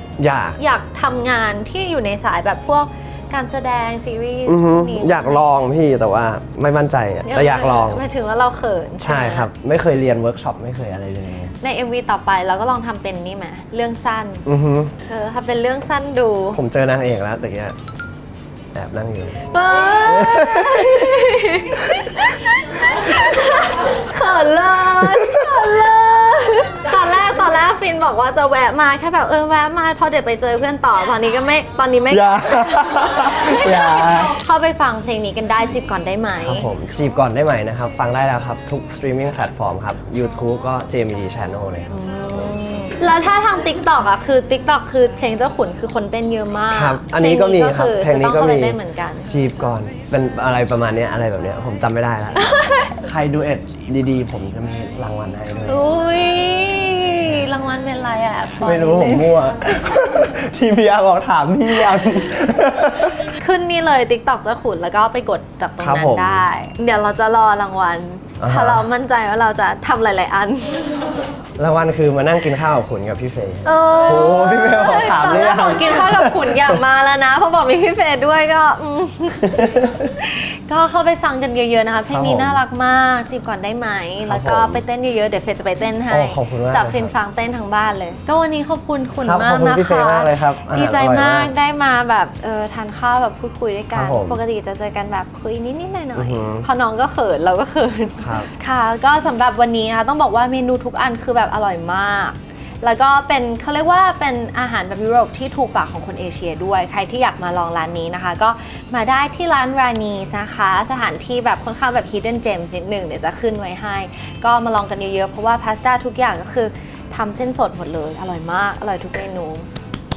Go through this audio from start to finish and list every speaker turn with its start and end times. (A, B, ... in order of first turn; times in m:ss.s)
0:00.2-0:00.6 A
0:00.6-0:05.5 B
0:04.5-0:08.0 A
0:07.2-0:09.5 B
0:09.0-0:11.5 A
0:11.6-0:14.4 B
0:14.4-0:14.9 A
0:15.1-0:16.6 B
0:16.6-0:17.8 A
0:18.7-0:21.3 A
0:19.5-0:36.7 B
0:25.0-0:25.7 A
0:32.1-0:34.4 A
0:36.4-0:41.9 A
0:41.9-0:49.3 B
0:46.7-0:52.5 A
0:52.4-0:52.9 B
0:53.0-0:56.0 A
0:55.7-0:59.4 B
0:58.6-1:03.2 A
1:03.4-1:11.0 B
1:05.8-1:06.5 A
1:08.4-1:08.9 A
1:11.6-1:16.8 A
1:13.6-1:19.6 B
1:19.5-1:20.1 A
1:20.2-1:59.7 B
1:22.1-1:22.6 A
1:24.2-1:24.8 A
1:26.1-1:27.1 A
1:29.2-1:31.5 A
1:33.9-1:34.4 A
1:36.2-1:36.7 A
1:38.2-1:38.5 A